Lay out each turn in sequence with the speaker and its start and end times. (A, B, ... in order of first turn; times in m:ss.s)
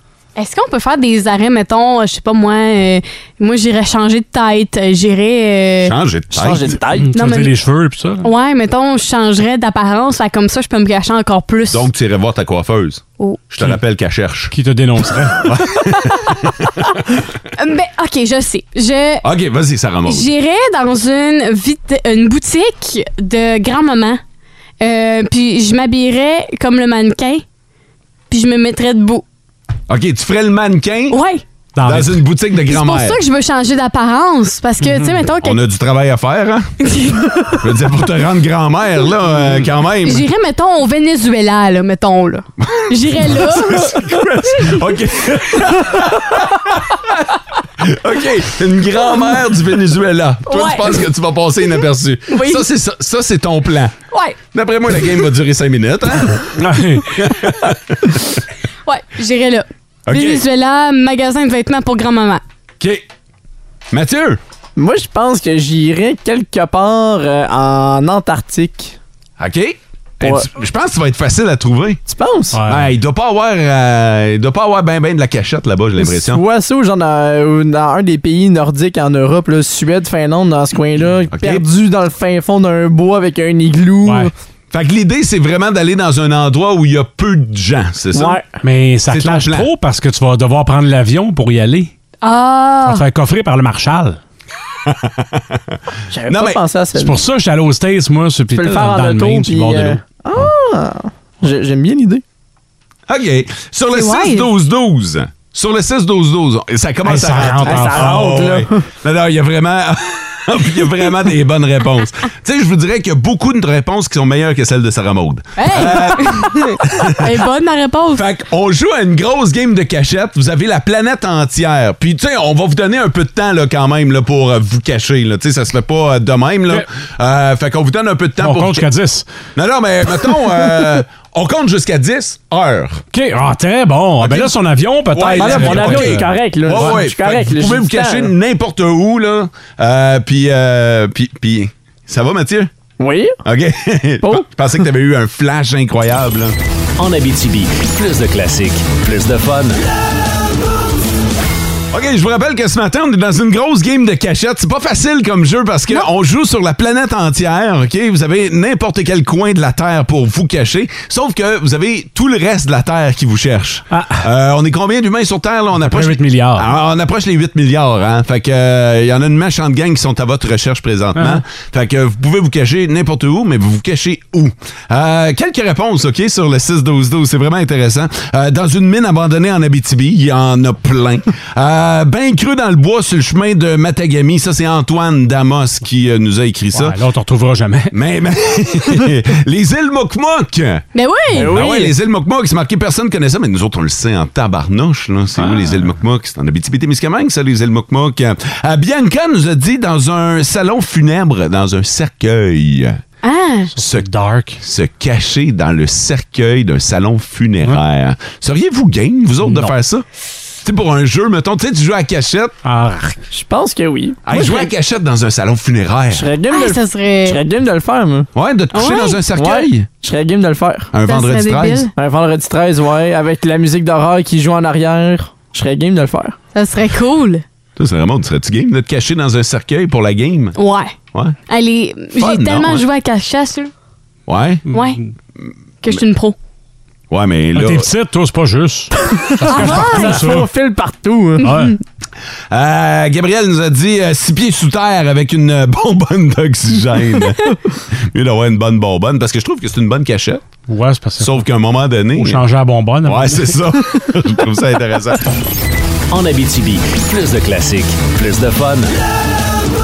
0:00.4-0:05.9 A
0:05.8-0:06.8 B
0:06.3-0:07.1 C
0:07.0-0:08.3 D
0:07.1-0:07.5 A
0:08.2-0:11.9 A
0:11.7-0:14.5 B
0:14.5-0:15.6 D
0:15.4-0:16.7 B
0:17.6-0:19.2 A
0:19.2-0:20.3 B
0:20.1-0:24.2 A
0:24.8-0:27.4 A
0:28.3-0:29.2 A
0:29.9-0:31.2 B
0:31.1-0:31.4 A
0:31.7-0:32.2 D
0:31.8-0:33.2 B
0:32.7-0:35.6 A
0:35.4-0:36.7 B
0:36.8-0:37.5 A
0:37.4-0:40.2 B
0:40.0-0:44.0 A
0:43.2-0:47.2 B
0:47.8-0:53.9 B
0:50.5-0:50.9 A
0:52.3-0:52.6 A
0:54.1-0:54.4 A
0:54.5-0:56.5 B
0:56.6-0:57.1 D
0:57.1-0:58.3 B
0:58.8-1:02.4 A
1:00.1-1:00.4 B
1:02.8-1:03.0 B
1:03.9-1:04.4 B
1:04.8-1:09.0 C
1:09.4-1:12.0 B
1:12.1-1:12.6 C
1:12.5-1:12.9 D
1:12.6-1:16.4 B
1:16.0-1:24.3 C
1:21.3-1:21.6 B
1:24.0-1:24.3 D
1:24.7-1:28.4 B
1:28.1-1:28.6 C
1:28.6-1:31.9 D
1:29.1-1:29.7 B
1:32.2-1:33.0 A
1:32.8-1:34.2 D
1:34.8-1:35.8 B
1:36.1-1:37.2 C
1:36.3-1:36.6 B
1:37.0-1:40.4 D
1:38.5-1:42.2 C
1:43.1-1:57.3 B
1:43.9-1:44.5 A
1:47.0-1:48.2 D
1:47.6-1:48.8 C
1:55.6-1:58.2 A
1:58.1-2:08.8 B
2:08.4-2:09.2 D
2:09.5-2:13.0 B
2:13.1-2:17.0 D
2:14.2-2:22.7 B
2:15.3-2:18.3 C
2:23.0-2:23.4 C
2:23.4-2:26.6 B
2:24.2-2:24.5 C
2:27.0-2:29.8 E
2:31.9-3:07.0 B
2:43.9-2:44.2 D
2:45.8-2:46.7 D
2:51.2-2:51.4 D
3:06.7-3:07.9 D
3:07.9-3:10.8 B
3:10.9-3:11.5 A
3:11.3-3:11.9 C
3:11.4-3:23.0 B
3:15.4-3:15.8 D
3:23.2-3:23.7 A
3:23.8-3:24.6 D
3:23.8-3:24.1 B
3:24.6-3:30.0 B
3:29.4-3:29.7 D
3:30.6-3:32.6 B
3:32.6-3:33.2 D
3:33.3-3:34.7 C
3:34.2-3:36.3 B
3:36.1-3:38.3 C
3:36.5-3:37.4 A
3:38.3-3:39.9 B
3:38.7-3:39.2 A
3:39.4-3:40.9 C
3:40.9-3:41.9 B
3:41.0-3:41.9 A
3:42.0-3:46.4 C
3:46.5-3:47.4 A
3:47.8-3:50.6 B
3:50.6-3:50.9 A
3:51.5-3:53.7 A
3:52.2-3:52.8 B
3:54.3-3:54.6 B
3:54.7-3:55.0 A
3:55.8-3:56.4 A
3:57.1-3:57.9 B
3:57.5-4:00.5 D
3:59.4-4:01.5 C
3:59.5-4:00.2 A
4:01.4-4:01.8 D
4:01.4-4:01.7 A
4:02.5-4:10.4 B
4:10.7-4:11.4 D
4:11.2-4:12.4 B
4:12.1-4:13.6 D
4:13.0-4:15.2 B
4:16.1-4:18.9 E